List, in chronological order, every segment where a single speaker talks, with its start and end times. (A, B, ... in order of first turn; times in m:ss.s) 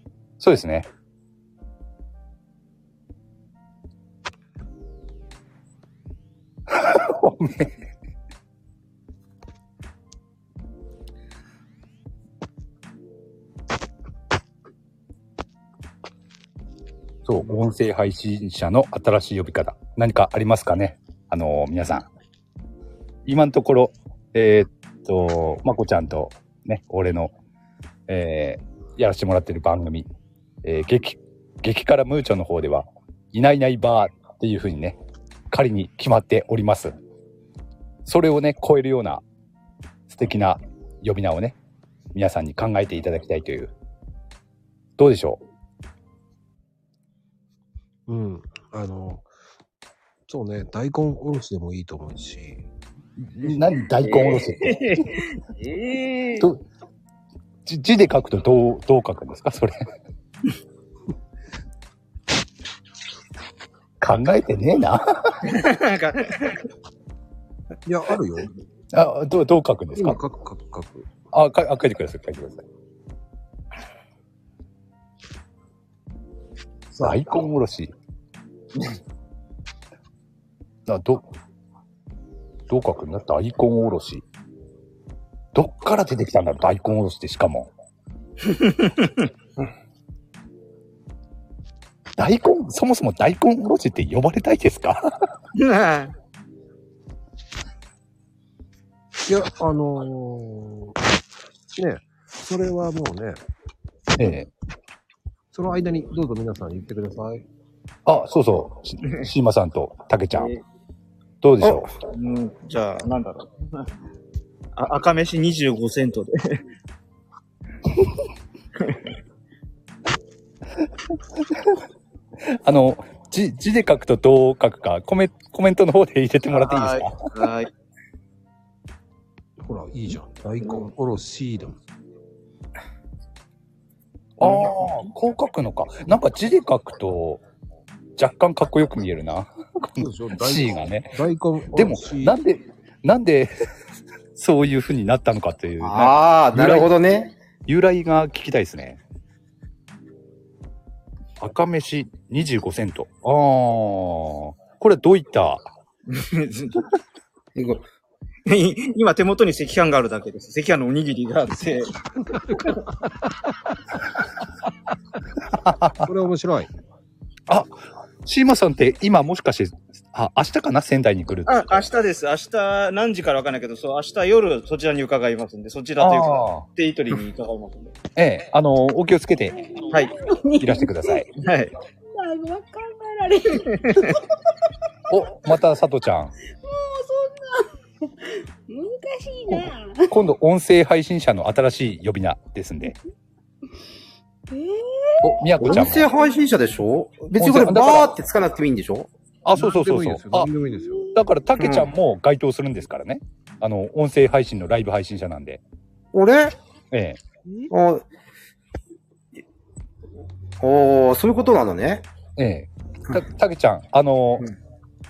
0:00.4-0:00.9 A
0:06.7-0:07.8 A
0:17.2-0:22.1 A
0:23.2-0:27.3 A
0:28.1-0:30.1 A
0:30.6-0:35.0 A
0:35.5-0:37.0 A
0:38.0-0:39.2 A
0:40.1-0:41.6 A
0:42.1-0:43.7 A
0:45.0-0:45.4 A
0:48.1-0:49.3 B
0:50.3-0:52.6 B
0:53.2-0:55.1 A
0:54.0-0:56.5 C
0:56.4-0:56.6 A
0:57.6-0:59.9 A
1:04.0-1:05.5 A
1:05.4-1:06.6 C
1:07.8-1:08.5 B
1:08.9-1:10.2 A
1:09.9-1:11.1 B
1:11.3-1:12.6 A
1:16.9-1:17.5 B
1:17.0-1:17.9 A
1:20.9-1:21.2 A
1:22.7-1:24.2 A
1:25.5-1:27.7 A
1:28.5-1:29.1 C
1:32.2-1:35.1 A
1:35.6-1:36.1 C
1:39.2-1:41.0 B
1:41.8-1:43.4 B
1:44.2-1:44.5 A
1:45.5-1:47.4 B
1:48.0-1:50.5 A
1:50.3-1:50.6 C
1:51.4-1:51.9 A
1:52.1-1:53.8 C
1:54.8-1:56.6 C
1:58.8-1:59.1 C
2:02.6-2:07.2 A
2:06.5-2:07.7 C
2:09.6-2:11.8 B
2:14.4-2:17.4 A
2:18.2-2:21.1 A
2:20.0-2:22.4 B
2:21.7-2:23.5 A
2:24.4-2:26.9 A
2:25.8-2:27.3 D
2:27.7-2:29.0 A
2:31.4-2:35.7 A
2:36.1-2:36.8 C
2:37.6-2:37.8 D
2:38.5-2:41.9 C
2:42.2-2:43.2 B
2:45.5-2:46.1 A
2:46.0-2:46.7 B
2:47.5-2:51.9 A
2:51.5-2:58.0 C
2:56.0-2:56.6 A
2:58.2-2:59.6 A
2:59.8-3:01.2 E
3:00.6-3:01.3 A
3:01.4-3:01.7 C
3:02.1-3:04.2 E
3:05.1-3:06.3 A
3:06.6-3:10.1 E
3:09.5-3:13.0 A
3:14.5-3:16.4 E
3:15.2-3:16.1 A
3:15.6-3:19.1 D
3:17.3-3:18.1 A
3:19.4-3:20.5 A
3:19.5-3:21.1 B
3:20.8-3:21.1 E
3:21.1-3:25.6 A
3:21.6-3:21.9 D
3:26.1-3:26.5 D
3:26.9-3:27.2 A
3:27.7-3:28.0 D
3:30.6-3:32.0 D
3:32.4-3:34.5 A